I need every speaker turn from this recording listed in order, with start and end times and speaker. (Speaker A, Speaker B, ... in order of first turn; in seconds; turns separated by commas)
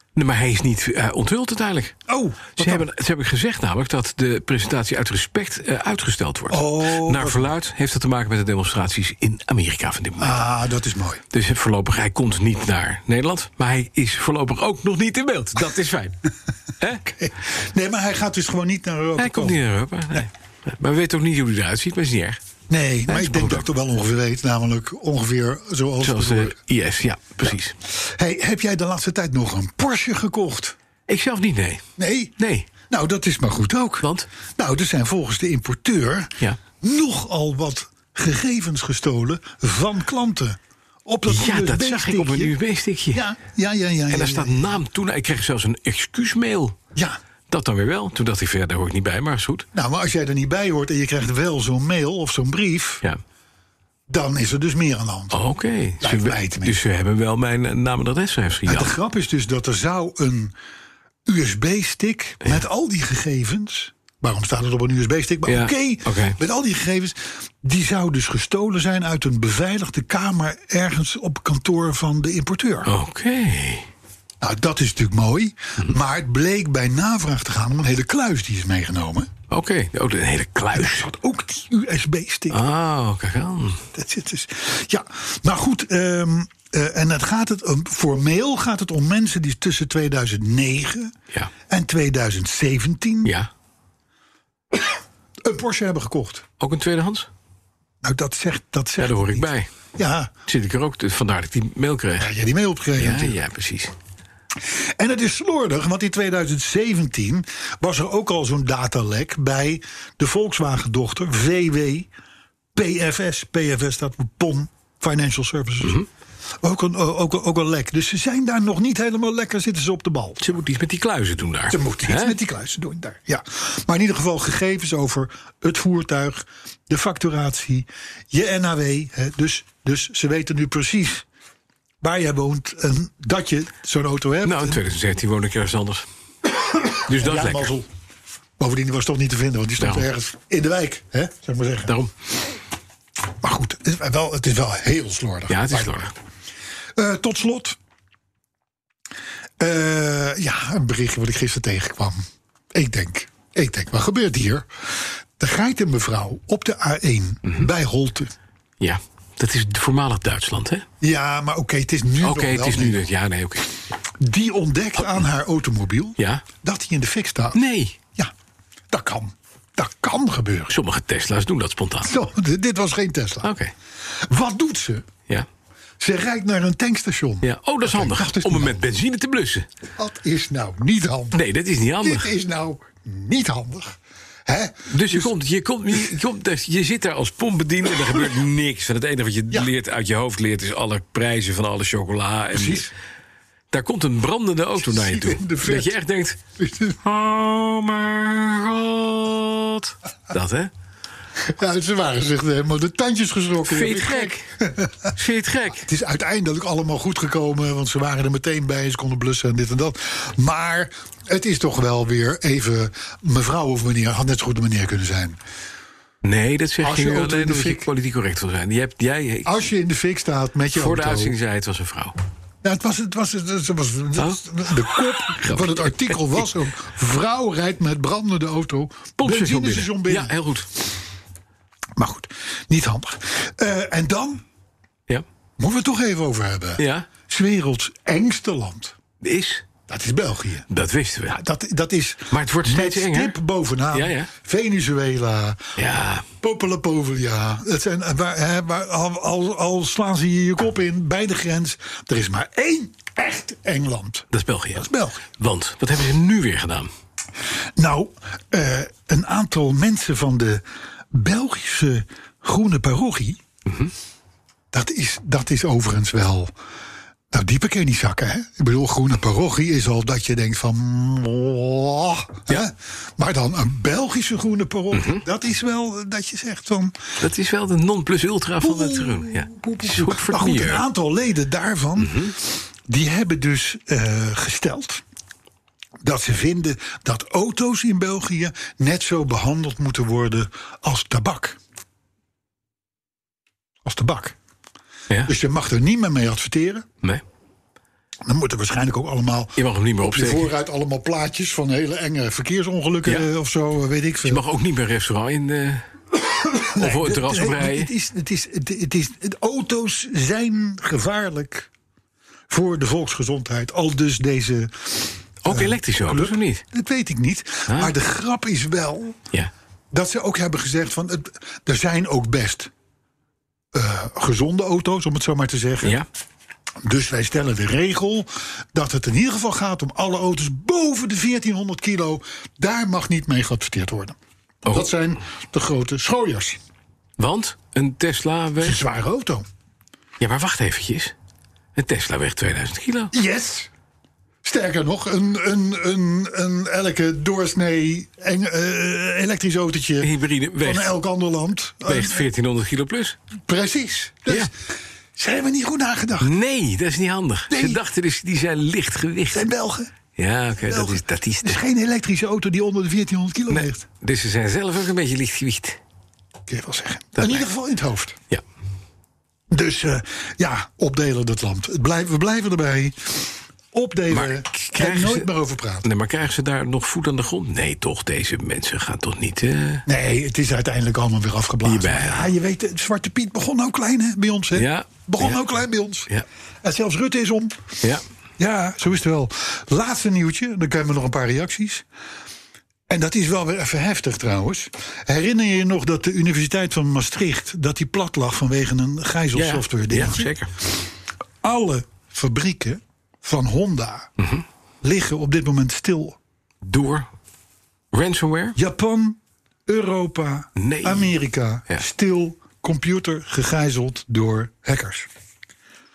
Speaker A: 0.2-2.0, Speaker B: 2.1-2.9, Speaker A: 2.5-10.4, Speaker B: 6.5-7.5, Speaker B: 10.2-11.2, Speaker A: 11.3-16.2, Speaker B: 17.0-19.6, Speaker A: 19.2-22.4, Speaker B: 22.7-26.6, Speaker A: 23.1-23.6, Speaker A: 26.0-27.8, Speaker B: 27.5-30.8, Speaker A: 31.1-31.8, Speaker B: 32.0-32.4, Speaker A: 32.4-32.7, Speaker B: 32.9-42.5, Speaker A: 34.0-34.3, Speaker A: 41.3-43.3, Speaker B: 43.1-44.8, Speaker A: 44.1-46.8, Speaker A: 47.5-49.7, Speaker B: 49.7-53.0, Speaker B: 54.1-55.4, Speaker A: 55.3-58.9, Speaker B: 56.0-56.8, Speaker B: 58.7-60.5, Speaker B: 61.3-72.9, Speaker A: 65.5-66.4, Speaker A: 72.8-73.9, Speaker B: 74.4-79.3, Speaker A: 79.5-81.1, Speaker B: 80.7-82.6, Speaker A: 82.5-83.8, Speaker B: 83.9-91.1, Speaker B: 91.7-93.3, Speaker A: 93.2-93.5, Speaker B: 94.7-96.5, Speaker A: 96.6-97.3, Speaker B: 98.0-100.3, Speaker A: 99.0-99.7, Speaker A: 100.5-102.3, Speaker B: 102.2-103.4, Speaker A: 103.0-103.9, Speaker B: 104.6-112.1, Speaker B: 112.8-116.0, Speaker B: 116.6-120.6, Speaker A: 120.4-122.4, Speaker B: 121.7-131.2, Speaker B: 132.0-134.8, Speaker A: 134.4-136.1, Speaker B: 136.7-137.9, Speaker A: 137.1-137.7, Speaker B: 138.6-141.9, Speaker A: 139.8-140.1, Speaker A: 141.9-142.1, Speaker B: 143.4-146.1, Speaker A: 145.5-146.1, Speaker B: 147.0-147.8, Speaker B: 149.6-152.2, Speaker B: 152.7-158.3, Speaker A: 158.8-160.9, Speaker B: 161.0-163.1, Speaker A: 162.2-163.8, Speaker B: 164.2-167.6, Speaker A: 166.2-166.4, Speaker A: 167.5-168.0, Speaker B: 168.9-170.8, Speaker A: 170.7-172.1, Speaker B: 172.0-173.5, Speaker A: 173.4-173.7, Speaker B: 174.1-175.1, Speaker B: 176.0-178.8, Speaker A: 177.4-179.7, Speaker B: 180.0-181.4, Speaker A: 181.3-182.3, Speaker B: 182.0-185.3, Speaker A: 184.9-192.9, Speaker B: 187.9-188.3, Speaker B: 192.5-192.9, Speaker A: 193.7-196.4, Speaker B: 194.8-195.9, Speaker B: 196.6-197.0, Speaker A: 197.0-200.7, Speaker B: 201.4-205.2, Speaker A: 203.7-204.4, Speaker A: 205.2-205.9, Speaker B: 205.7-215.4, Speaker A: 216.2-219.6, Speaker B: 216.8-217.9, Speaker B: 219.4-221.3, Speaker A: 220.7-222.2, Speaker B: 222.6-230.3, Speaker A: 224.2-226.4, Speaker A: 229.2-230.7, Speaker B: 232.0-234.4, Speaker B: 235.6-239.0, Speaker A: 236.8-237.1, Speaker A: 239.2-239.7, Speaker B: 239.9-240.7, Speaker A: 240.7-241.4, Speaker B: 241.3-245.7, Speaker A: 242.3-243.4, Speaker A: 243.9-244.3, Speaker A: 245.8-246.3, Speaker B: 246.4-255.2, Speaker A: 254.3-256.9, Speaker B: 257.8-263.4, Speaker A: 263.7-263.9, Speaker B: 264.7-266.5, Speaker B: 267.3-277.0, Speaker A: 274.9-275.2, Speaker A: 277.2-280.8, Speaker B: 278.6-285.0, Speaker A: 282.0-282.3, Speaker B: 286.0-291.6, Speaker B: 293.9-294.4, Speaker B: 295.3-296.9, Speaker B: 298.2-304.4, Speaker A: 299.6-300.5, Speaker A: 304.2-305.8, Speaker B: 306.3-311.7, Speaker A: 306.7-307.9, Speaker B: 312.5-319.2, Speaker A: 315.4-316.6, Speaker A: 317.7-317.9, Speaker B: 319.9-322.7, Speaker B: 323.7-326.0, Speaker B: 326.8-336.6, Speaker A: 334.6-334.9, Speaker A: 337.2-338.8, Speaker B: 338.6-339.4, Speaker A: 340.2-341.1, Speaker A: 341.8-343.1, Speaker B: 343.1-343.7, Speaker B: 344.4-352.3, Speaker A: 350.0-350.9, Speaker A: 351.9-353.2, Speaker B: 353.5-354.5, Speaker B: 355.2-356.3, Speaker A: 356.2-359.5, Speaker B: 357.5-357.8, Speaker B: 359.3-359.9, Speaker A: 360.2-361.6, Speaker B: 360.6-363.9, Speaker A: 363.5-365.8, Speaker B: 366.5-368.2, Speaker A: 367.2-367.5, Speaker B: 369.5-375.9, Speaker A: 374.1-375.3, Speaker A: 375.8-379.9, Speaker B: 379.9-386.1, Speaker A: 381.6-382.3, Speaker A: 384.6-385.4, Speaker B: 386.6-387.6, Speaker B: 388.4-391.9, Speaker B: 392.9-400.3, Speaker A: 399.3-400.5, Speaker B: 401.4-404.1, Speaker B: 404.8-406.2, Speaker A: 406.6-407.1, Speaker A: 407.9-408.6, Speaker B: 408.6-415.1, Speaker A: 410.6-411.1